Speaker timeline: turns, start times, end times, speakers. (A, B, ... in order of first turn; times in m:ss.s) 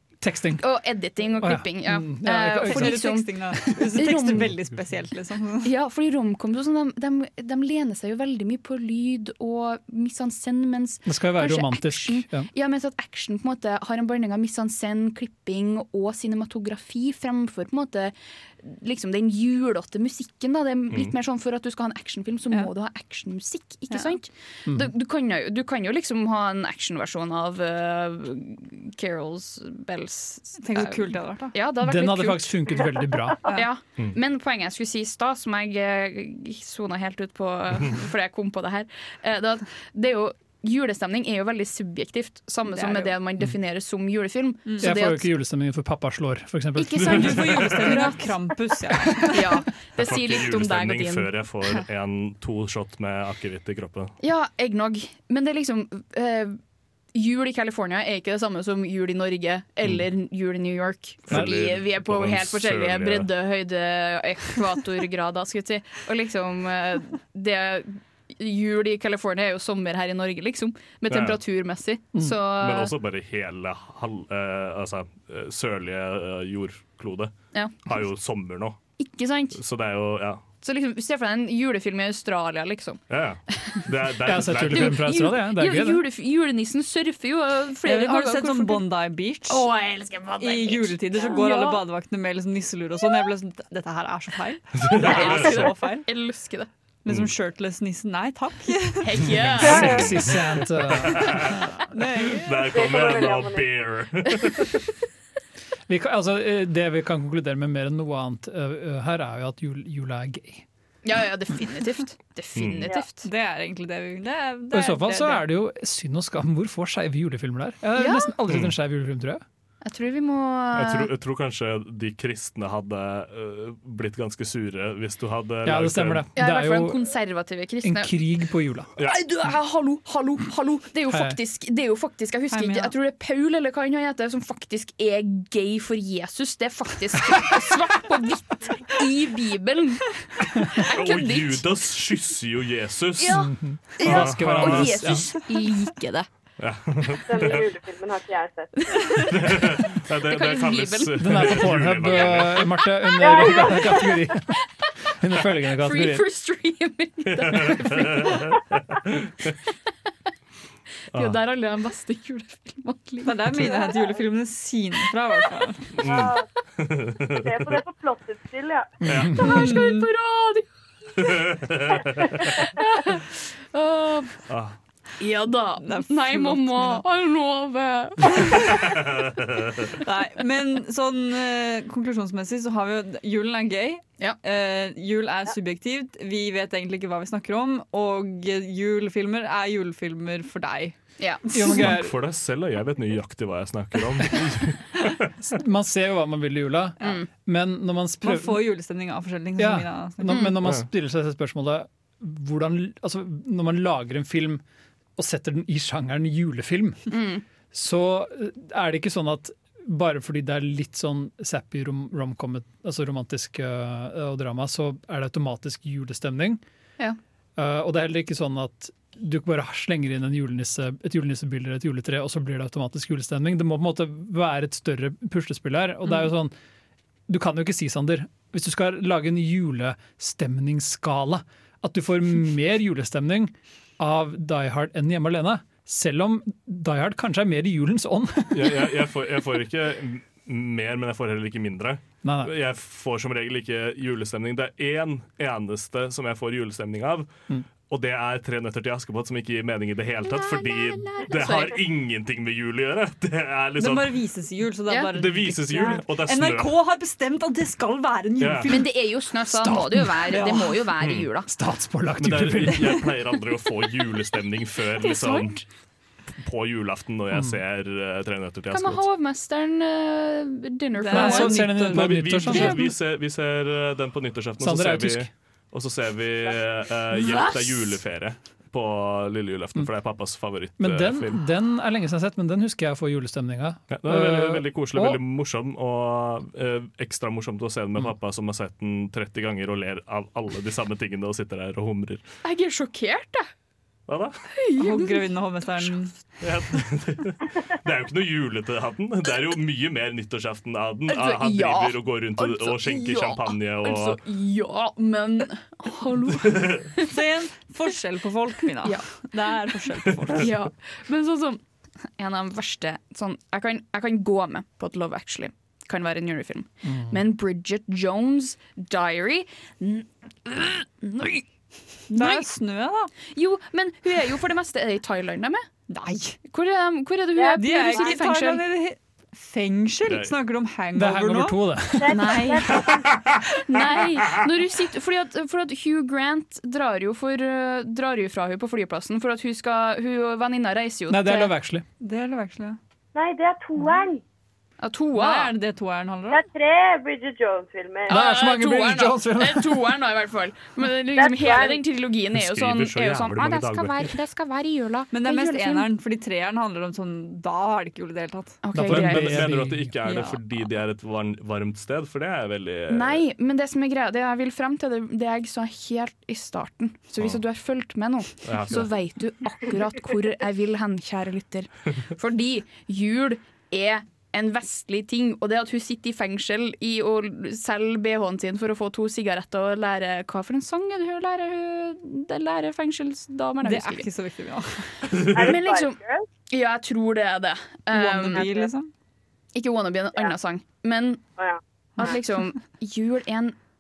0:00.2-0:00.7 A
0:00.6-0:04.5 B
0:01.4-0:03.1 A
0:02.6-0:05.7 C
0:03.6-0:03.9 A
0:05.6-0:45.3 B
0:11.1-0:12.5 A
0:23.9-0:24.2 C
0:24.7-0:24.9 A
0:30.6-0:31.6 C
0:31.8-0:33.5 A
0:42.7-0:43.1 C
0:44.8-0:47.7 A
0:46.8-0:48.2 B
0:47.0-0:49.6 C
0:49.3-0:51.3 B
0:50.0-0:54.2 D
0:54.2-0:56.6 B
0:57.1-1:12.9 B
1:01.3-1:03.3 D
1:11.1-1:11.4 D
1:12.6-1:17.3 D
1:17.5-1:17.8 B
1:17.9-1:18.8 D
1:19.0-1:19.6 B
1:19.6-1:20.4 D
1:20.6-1:23.0 B
1:23.1-1:25.1 D
1:24.2-1:26.0 A
1:24.7-1:28.9 B
1:27.8-1:29.7 C
1:29.5-1:31.8 B
1:30.4-1:36.1 C
1:34.8-1:35.6 D
1:34.9-1:36.7 B
1:37.0-1:39.4 C
1:39.0-1:40.2 B
1:39.3-1:41.7 D
1:39.5-1:41.7 A
1:39.6-1:40.1 E
1:41.5-1:42.9 C
1:42.2-1:44.9 D
1:42.6-1:43.7 E
1:45.9-1:50.6 A
1:51.0-1:53.3 B
1:52.6-1:52.9 D
1:53.2-1:55.4 C
1:54.7-1:59.4 A
1:58.0-1:58.3 B
1:58.5-1:58.8 D
1:59.8-2:01.1 B
2:00.7-2:06.3 D
2:05.6-2:07.1 A
2:06.4-2:08.2 B
2:07.8-2:08.9 A
2:09.0-2:21.7 B
2:11.1-2:11.4 A
2:12.5-2:13.0 C
2:20.7-2:23.5 D
2:23.2-2:26.3 B
2:23.4-2:25.3 A
2:24.0-2:25.2 D
2:26.6-2:27.7 D
2:27.3-2:29.1 E
2:28.8-2:31.7 B
2:29.3-2:32.8 D
2:31.2-2:36.3 A
2:33.0-2:34.0 B
2:33.2-2:34.0 E
2:35.7-2:38.6 B
2:37.3-2:39.6 D
2:41.1-2:44.2 B
2:43.2-2:46.0 C
2:46.0-2:47.8 D
2:46.0-2:46.4 E
2:47.4-2:49.1 E
2:49.0-2:49.5 D
2:49.0-2:49.3 A
2:49.4-2:50.1 C
2:49.4-2:54.4 B
2:51.2-2:52.6 D
2:54.5-2:54.8 D
2:55.2-2:58.7 B
2:55.8-2:57.0 C
2:58.6-3:00.0 D
2:59.9-3:11.0 C
3:11.2-3:11.4 B
3:11.5-3:12.2 A
3:11.6-3:15.6 D
3:15.6-3:18.6 A
3:17.0-3:17.3 B
3:18.2-3:20.5 C
3:19.6-3:24.6 A
3:20.3-3:20.6 B
3:25.2-3:27.2 A
3:27.1-3:27.4 B
3:27.7-3:36.6 A
3:37.6-3:46.5 A
3:47.3-3:59.0 A
3:58.5-4:07.3 D
4:02.2-4:02.5 A
4:07.9-4:14.2 D
4:10.5-4:11.8 B
4:13.8-4:18.9 C
4:15.1-4:16.8 D
4:18.4-4:18.7 D
4:18.7-4:21.5 B
4:19.5-4:20.4 A
4:20.3-4:20.8 C
4:21.0-4:21.3 D
4:21.5-4:23.1 A
4:22.2-4:25.6 D
4:25.0-4:25.6 B
4:26.4-4:29.0 D
4:27.3-4:27.6 A
4:28.7-4:31.6 B
4:31.0-4:32.7 C
4:31.1-4:32.9 A
4:31.5-4:41.4 D
4:32.5-4:32.8 B
4:34.6-4:35.3 A
4:37.1-4:37.9 B
4:40.8-4:45.2 A
4:43.9-4:52.2 D
4:52.4-4:53.5 B
4:54.1-4:54.4 D
4:54.5-4:55.9 B
4:54.8-4:56.2 C
4:56.4-5:04.2 D
5:01.1-5:07.2 B
5:06.4-5:06.9 D
5:07.0-5:10.5 C
5:08.8-5:09.1 B
5:10.1-5:10.4 D
5:10.3-5:11.6 B
5:12.2-5:21.5 B
5:16.9-5:17.2 A
5:22.1-5:22.5 B
5:22.1-5:23.1 C
5:23.3-5:25.7 B
5:25.9-5:26.4 C
5:26.5-5:28.6 B
5:27.4-5:28.2 E
5:27.5-5:31.6 C
5:30.0-5:30.3 D
5:31.0-5:32.4 A
5:32.0-5:33.2 E
5:32.1-5:33.0 B
5:32.9-5:33.3 D
5:33.5-5:41.5 B
5:41.1-5:41.8 A
5:42.0-5:42.8 C
5:43.2-5:44.2 E
5:44.8-5:45.5 B
5:45.1-5:46.4 C
5:46.3-5:48.2 E
5:48.1-5:49.9 A
5:48.1-5:55.9 B
5:51.2-5:51.8 E
5:52.3-5:54.1 D
5:55.1-5:58.6 C
5:58.6-5:59.5 B
5:58.7-5:59.9 A
5:58.8-6:03.2 D
6:00.0-6:00.4 C
6:02.9-6:24.1 B
6:08.4-6:08.9 D
6:23.6-6:25.1 C
6:25.1-6:25.5 D
6:25.2-6:26.0 B
6:25.3-6:26.2 E
6:26.5-6:28.5 B
6:27.9-6:28.9 C
6:28.4-6:28.7 E
6:29.6-6:31.2 B
6:31.4-6:32.1 E
6:32.0-6:33.6 B